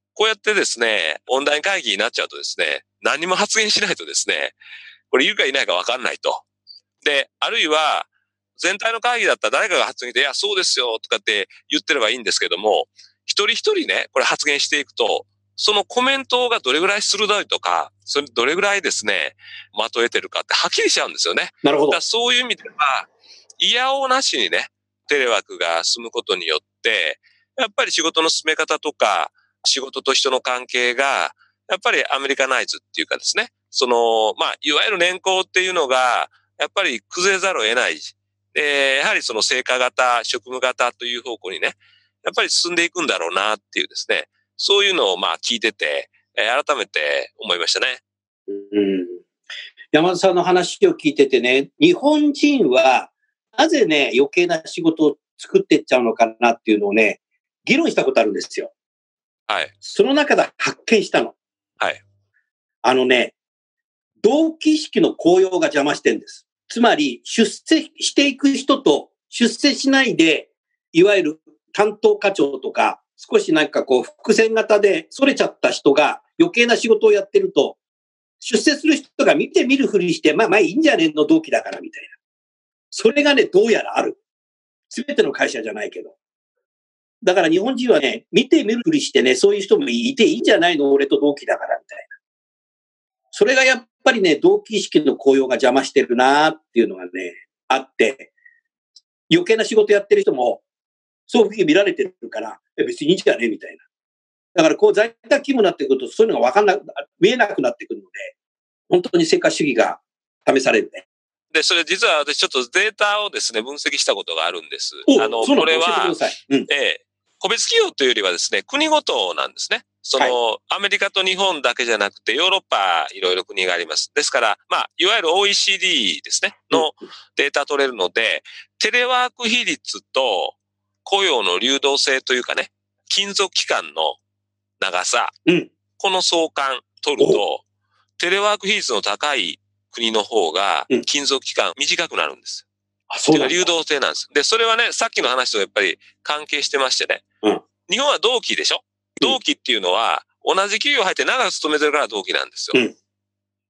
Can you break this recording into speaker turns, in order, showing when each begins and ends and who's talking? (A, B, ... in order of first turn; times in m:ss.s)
0:00.1-0:04.5 A
0:05.1-0:06.4 A
0:07.0-0:48.0 A
0:21.6-0:22.0 B
0:48.5-0:49.2 B
0:49.9-0:58.7 B
0:59.8-1:01.3 B
1:02.8-1:03.3 B
1:04.2-1:17.8 B
1:18.4-1:22.1 B
1:22.9-1:24.2 B
1:24.9-1:26.1 B
1:27.2-1:32.1 B
1:33.3-1:38.3 B
1:39.3-1:40.6 B
1:41.3-1:43.8 B
1:44.5-1:48.3 B
1:48.9-1:51.0 B
1:51.5-1:56.2 A
1:55.1-1:56.7 B
1:56.7-2:14.2 A
2:14.8-2:15.3 A
2:16.0-2:17.6 A
2:18.2-2:22.6 A
2:23.1-2:23.7 B
2:23.3-2:27.2 A
2:27.9-2:32.8 A